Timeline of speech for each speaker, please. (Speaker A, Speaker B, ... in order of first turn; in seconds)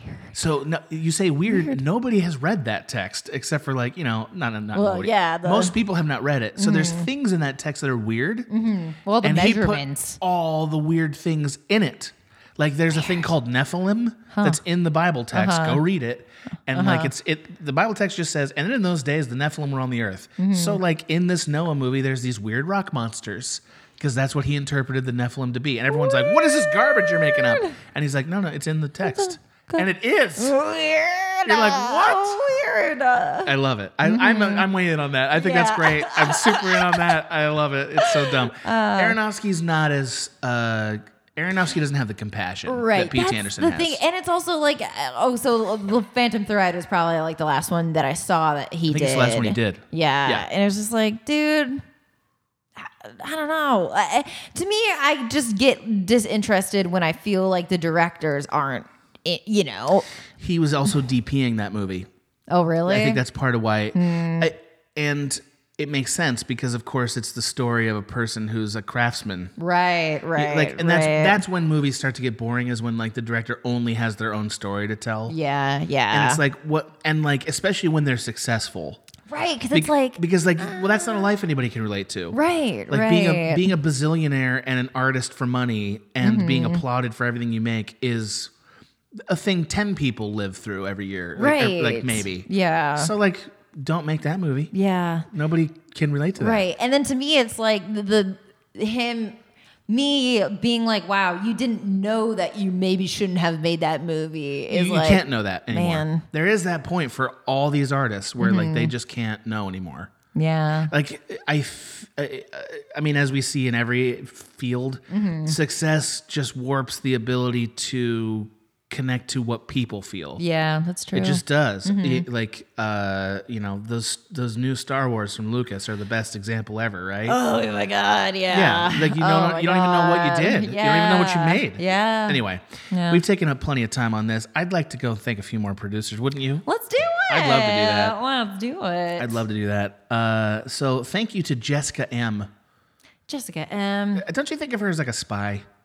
Speaker A: 0.3-8.5, 9.2-30.5, 31.4-32.4, 33.4-44.0, 48.9-50.5, 60.4-62.1, 62.9-69.5, 70.3-75.3, 76.1-79.0, 79.7-82.4, 82.9-88.5, 89.2-94.7, 95.3-96.6, 104.7-110.1, 110.9-120.4, 121.1-127.4, 128.5-136.6, 137.3-138.2, 139.2-142.5, 144.1-145.6
Speaker B: 1.5-1.8, 4.7-5.8, 6.6-7.1, 8.5-10.2, 14.3-14.6, 15.3-15.8, 16.7-17.1, 20.4-20.8, 25.9-27.8, 29.0-34.7, 35.3-37.1, 38.0-39.2, 42.7-51.8, 52.8-60.1, 62.5-63.2, 63.9-64.5, 69.6-71.4, 75.3-76.4, 79.3-81.2, 82.3-83.7, 86.2-86.8, 91.4-93.1, 94.7-95.3, 96.4-99.3, 99.9-106.2, 108.4-108.9, 110.3-110.9, 115.1-115.6, 120.4-122.2, 127.2-133.2, 136.6-139.4, 143.3-144.2